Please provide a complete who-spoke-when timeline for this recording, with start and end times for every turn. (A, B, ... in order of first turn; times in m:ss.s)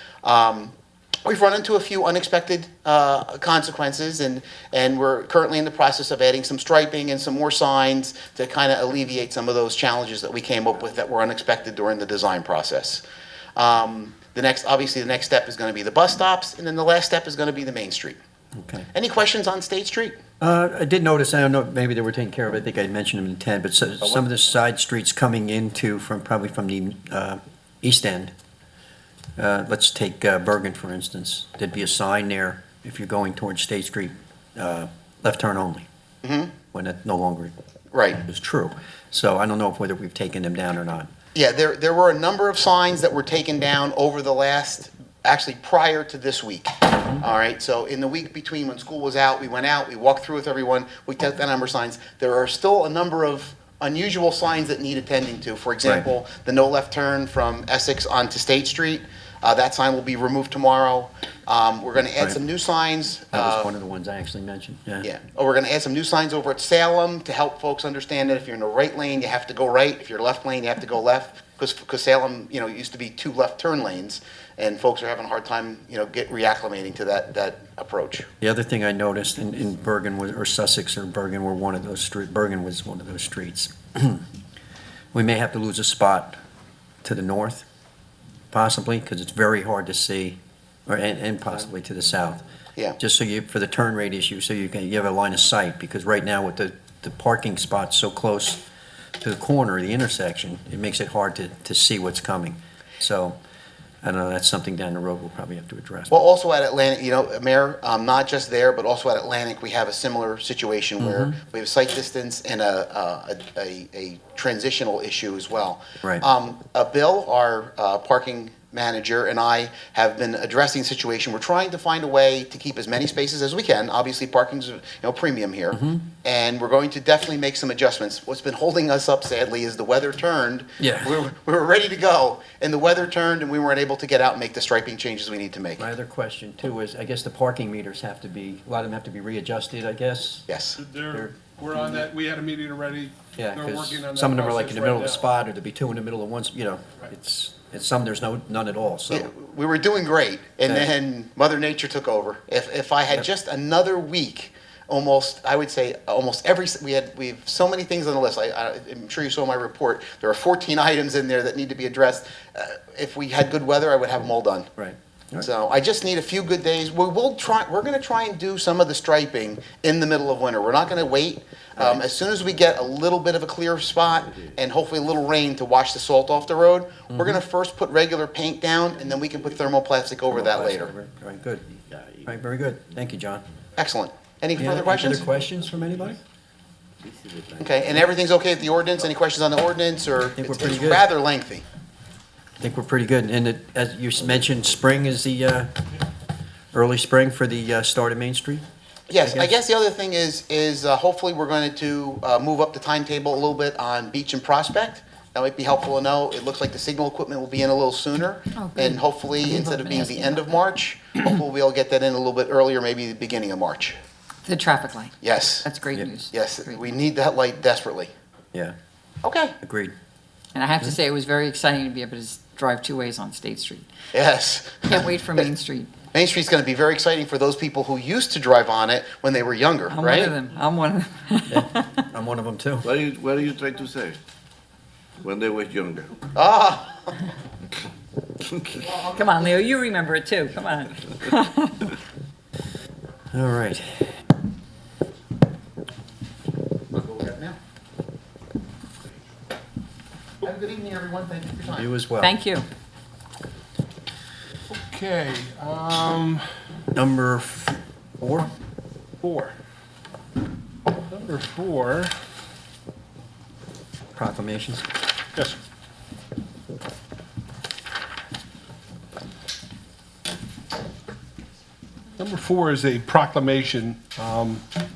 0:00.2-0:00.7 A
0:01.2-0:13.0 A
0:13.6-0:18.2 A
0:18.6-0:18.9 B
0:18.9-0:20.2 A
0:20.4-0:28.3 B
0:29.4-0:35.8 B
0:36.2-0:36.5 A
0:36.7-0:37.5 B
0:37.9-0:38.2 A
0:38.2-0:41.1 B
0:41.3-1:03.7 A
1:03.3-1:05.1 B
1:05.0-1:18.2 A
1:18.4-1:24.2 B
1:25.1-1:26.4 B
1:27.0-1:27.6 B
1:28.5-1:32.4 B
1:33.0-1:38.6 B
1:39.2-1:43.4 B
1:44.0-1:46.2 B
1:46.1-2:15.9 A
1:51.0-1:51.3 B
2:05.7-2:06.0 B
2:10.8-2:11.2 B
2:15.8-2:20.5 B
2:20.5-2:20.8 A
2:20.8-2:25.2 C
2:21.1-2:21.8 B
2:23.4-2:29.3 B
2:29.1-2:44.7 A
2:44.8-2:45.5 B
2:45.4-3:00.9 A
2:57.1-2:57.4 B
3:00.3-3:01.7 B
3:01.9-3:02.3 D
3:02.2-3:03.4 B
3:03.8-3:05.2 A
3:04.6-3:06.2 B
3:07.0-3:07.8 D
3:07.6-3:11.6 A
3:10.4-3:11.1 B
3:12.6-3:15.7 B
3:16.7-3:18.6 B
3:19.1-3:34.0 A
3:19.2-3:19.5 B
3:28.5-3:30.6 E
3:34.4-3:36.8 E
3:35.2-3:35.7 A
3:36.3-3:38.1 A
3:39.2-3:39.5 A
3:39.6-3:39.9 B
3:40.5-3:43.9 E
3:44.1-3:45.5 A
3:44.9-3:45.9 E
3:46.1-3:50.3 A
3:49.9-3:52.0 E
3:51.5-3:53.0 B
3:52.8-3:54.2 D
3:55.2-3:56.1 D
3:56.3-3:57.1 A
3:58.7-3:59.2 A
3:59.0-4:02.0 E
4:03.3-4:04.1 B
4:06.9-4:07.6 A
4:10.4-4:11.9 A
4:11.7-4:12.4 B
4:12.2-4:12.6 E
4:14.7-4:16.5 C
4:16.9-4:18.5 B
4:19.2-4:19.5 C
4:21.1-4:22.1 C
4:24.1-4:24.9 B
4:32.2-4:34.6 C